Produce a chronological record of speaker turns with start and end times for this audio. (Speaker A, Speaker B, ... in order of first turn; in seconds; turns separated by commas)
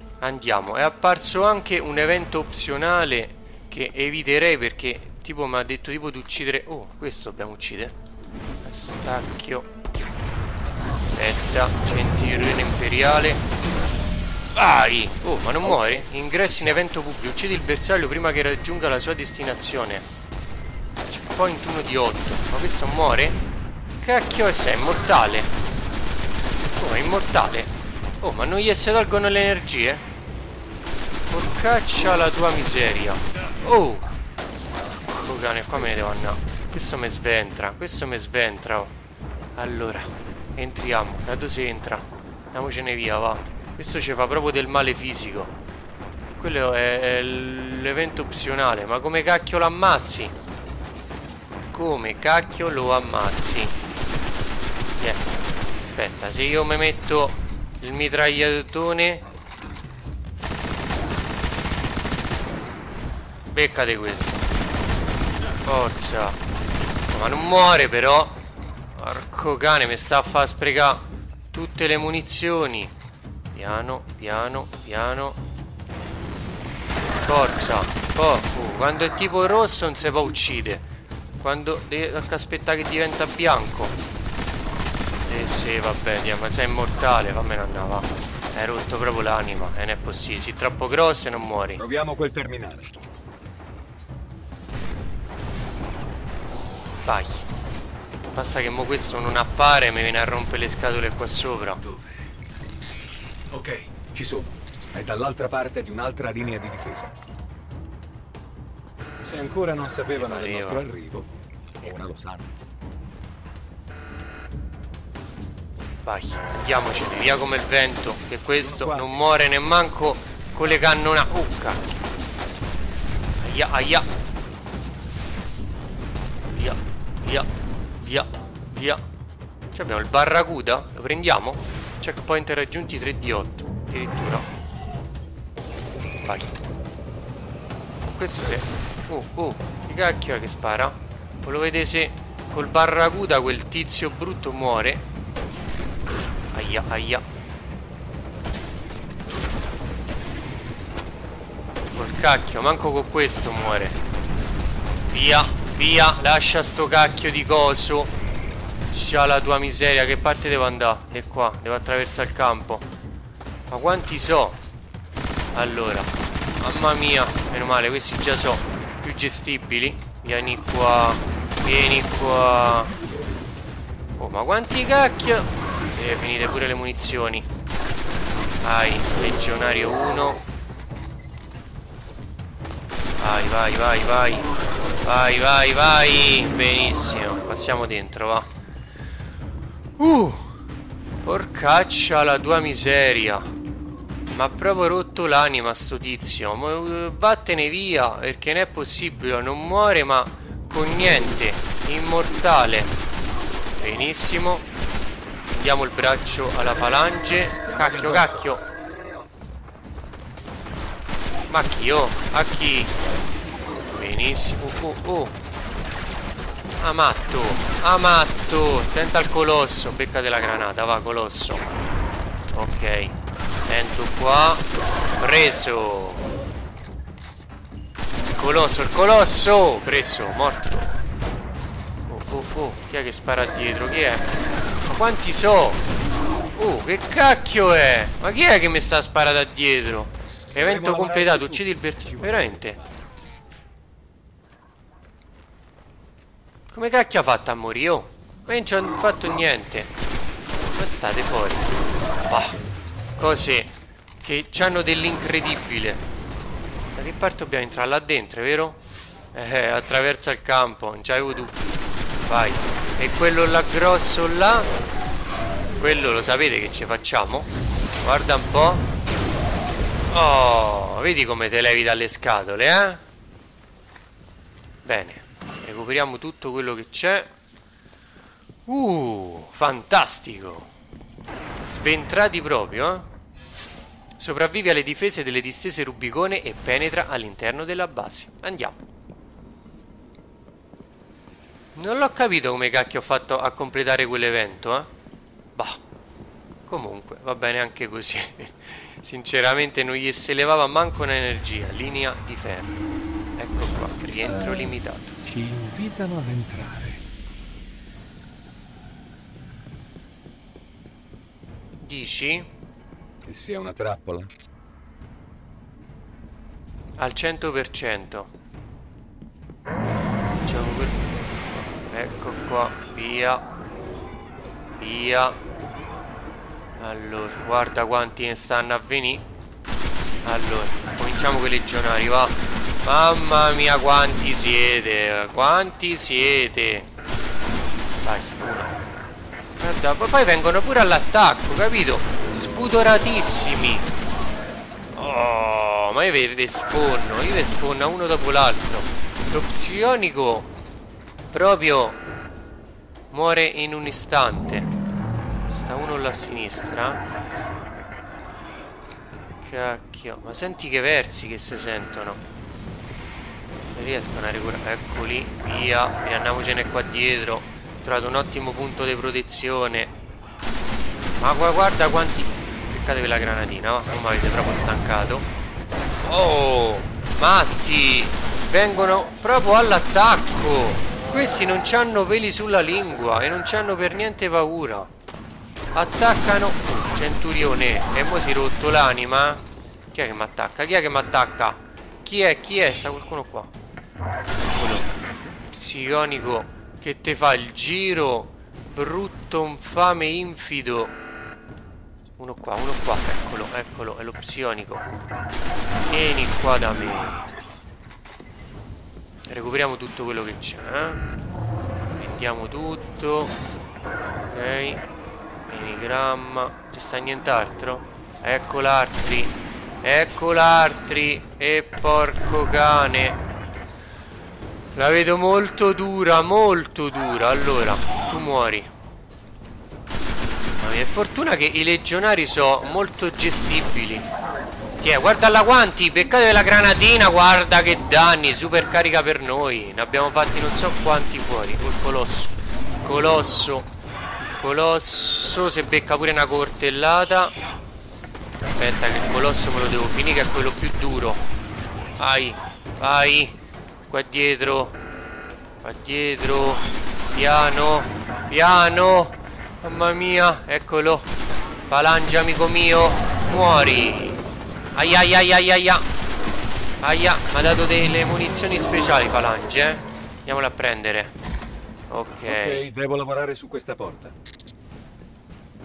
Speaker A: 0.2-7.9, Speaker A: 8.6-9.7, Speaker A: 11.1-13.4, Speaker A: 14.5-20.1, Speaker A: 21.1-23.4, Speaker A: 24.0-25.5, Speaker A: 26.7-30.0, Speaker A: 31.3-34.1, Speaker A: 35.1-38.9, Speaker A: 39.6-45.5, Speaker A: 46.3-50.4, Speaker A: 51.7-53.8, Speaker A: 55.0-59.2, Speaker A: 63.5-64.4, Speaker A: 65.6-66.4, Speaker A: 67.1-68.4, Speaker A: 69.0-72.9, Speaker A: 73.5-75.4, Speaker A: 77.2-80.8, Speaker A: 81.4-84.0, Speaker A: 85.2-91.8, Speaker B: 91.8-92.9, Speaker A: 97.0-97.5, Speaker A: 98.3-101.8, Speaker B: 101.8-102.1, Speaker B: 103.5-107.2, Speaker B: 109.2-111.3, Speaker A: 110.1-110.9, Speaker B: 111.8-112.5, Speaker A: 116.0-122.0, Speaker B: 118.6-119.3, Speaker A: 123.4-124.1, Speaker A: 126.5-127.5, Speaker A: 128.0-129.0, Speaker A: 129.7-134.5, Speaker A: 136.2-136.6, Speaker A: 138.2-145.0, Speaker A: 146.5-147.2, Speaker A: 151.9-154.0, Speaker A: 155.1-158.1, Speaker A: 158.9-162.9, Speaker A: 163.7-164.6, Speaker A: 165.5-173.0, Speaker A: 174.2-177.5, Speaker A: 178.6-180.4, Speaker A: 183.2-184.5, Speaker A: 185.0-188.5, Speaker A: 190.0-190.5, Speaker A: 191.2-193.5, Speaker A: 194.3-202.9, Speaker A: 203.8-204.7, Speaker A: 205.5-208.6, Speaker B: 207.6-208.5, Speaker A: 211.5-213.0, Speaker A: 213.8-215.4, Speaker A: 216.8-221.7, Speaker A: 222.5-224.7, Speaker A: 225.2-226.3, Speaker A: 228.3-230.9, Speaker A: 232.1-234.3, Speaker A: 234.8-235.8, Speaker A: 236.6-242.8, Speaker B: 240.5-243.0, Speaker A: 246.7-249.9, Speaker A: 250.7-251.7, Speaker A: 252.2-252.6, Speaker A: 253.2-256.0, Speaker A: 256.9-258.8, Speaker A: 259.3-261.6, Speaker A: 262.3-264.7, Speaker A: 265.8-267.5, Speaker A: 268.0-268.9, Speaker A: 270.1-273.0, Speaker A: 274.8-277.3, Speaker A: 278.7-280.7, Speaker A: 281.6-283.1, Speaker A: 284.2-288.8, Speaker A: 291.8-294.9, Speaker A: 295.6-295.8, Speaker A: 296.7-302.8, Speaker A: 303.4-305.2, Speaker B: 304.2-307.0, Speaker A: 311.8-312.5, Speaker B: 313.2-314.3, Speaker A: 317.0-318.3, Speaker A: 320.4-323.4, Speaker A: 324.8-325.4, Speaker A: 326.8-329.3, Speaker A: 330.2-336.9, Speaker A: 338.0-338.8, Speaker A: 339.6-343.9, Speaker A: 345.0-350.5, Speaker A: 351.3-352.0, Speaker A: 353.1-354.7, Speaker A: 355.5-357.0, Speaker A: 359.4-362.2, Speaker A: 363.7-369.9, Speaker A: 371.2-375.3, Speaker A: 376.0-384.9, Speaker A: 385.7-393.5, Speaker A: 394.5-394.9, Speaker A: 395.5-401.0, Speaker A: 402.2-404.9, Speaker A: 405.9-407.3, Speaker A: 409.3-411.0, Speaker A: 412.0-413.4, Speaker A: 414.2-414.9, Speaker A: 415.5-423.2, Speaker A: 424.7-428.7, Speaker A: 430.6-434.1, Speaker A: 434.8-443.7, Speaker A: 444.3-447.3, Speaker A: 448.4-451.2, Speaker A: 452.0-454.8, Speaker A: 455.6-461.1, Speaker A: 461.7-464.2, Speaker A: 464.7-465.9, Speaker A: 466.8-471.1, Speaker A: 471.9-472.6, Speaker B: 472.3-474.1